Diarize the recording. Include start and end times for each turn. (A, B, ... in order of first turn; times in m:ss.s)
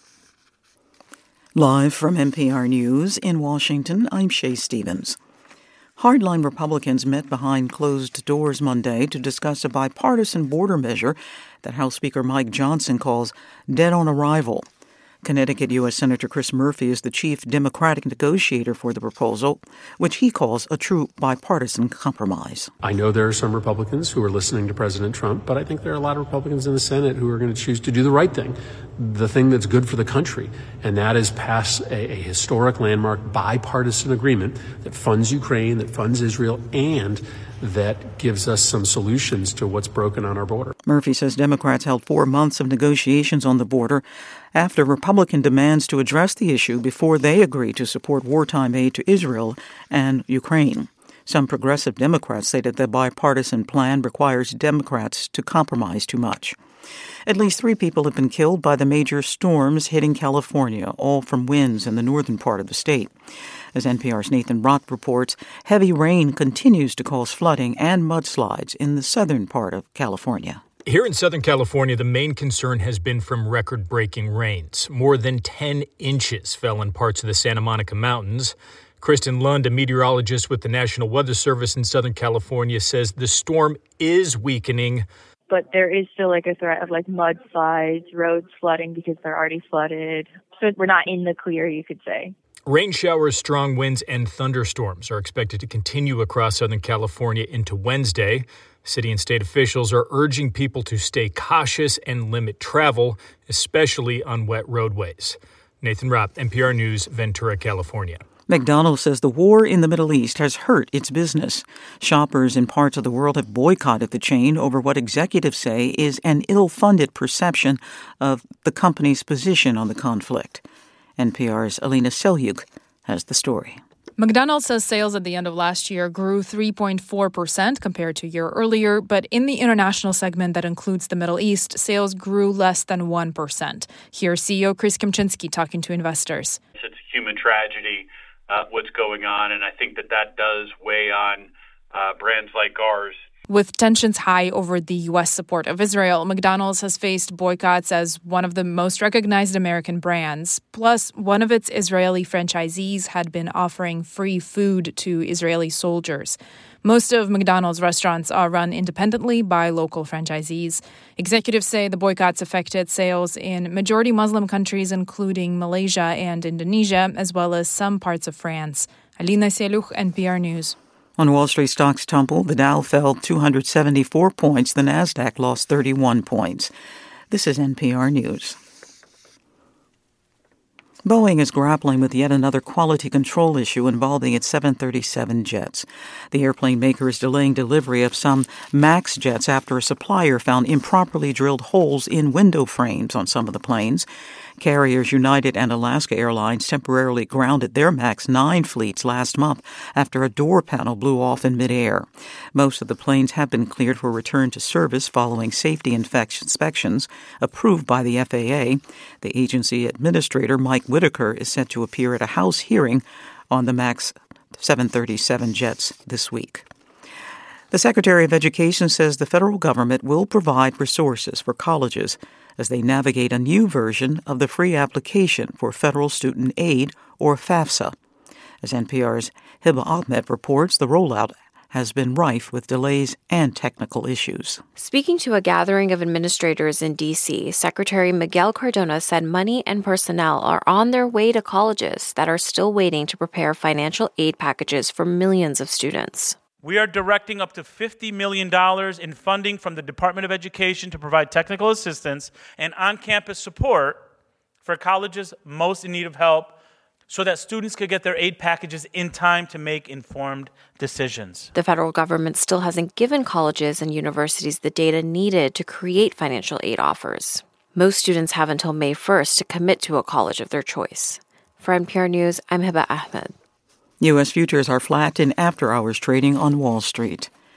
0:01.6-0:05.2 A
0:06.0-0:14.6 A
0:15.2-0:22.7 A
0:22.8-0:40.7 B
0:40.8-0:56.6 A
0:57.2-1:03.1 A
1:03.7-1:10.6 A
1:10.8-1:25.0 C
1:25.5-1:32.3 D
1:32.6-1:48.2 C
1:48.5-2:00.6 A
2:01.2-2:03.8 A
2:04.2-2:16.6 E
2:16.8-2:23.2 F
2:23.5-2:50.8 E
2:51.2-2:56.7 A
2:57.3-2:58.6 A
3:01.0-3:14.1 A
3:14.6-3:36.7 A
3:37.7-3:47.9 A
3:48.6-3:54.6 A
3:54.8-4:06.4 G
4:06.6-4:14.0 H
4:06.6-4:13.2 F
4:14.6-4:16.5 F
4:14.7-4:16.5 H
4:17.1-4:21.5 H
4:17.1-4:21.4 F
4:21.5-4:33.3 G
4:34.0-4:37.3 A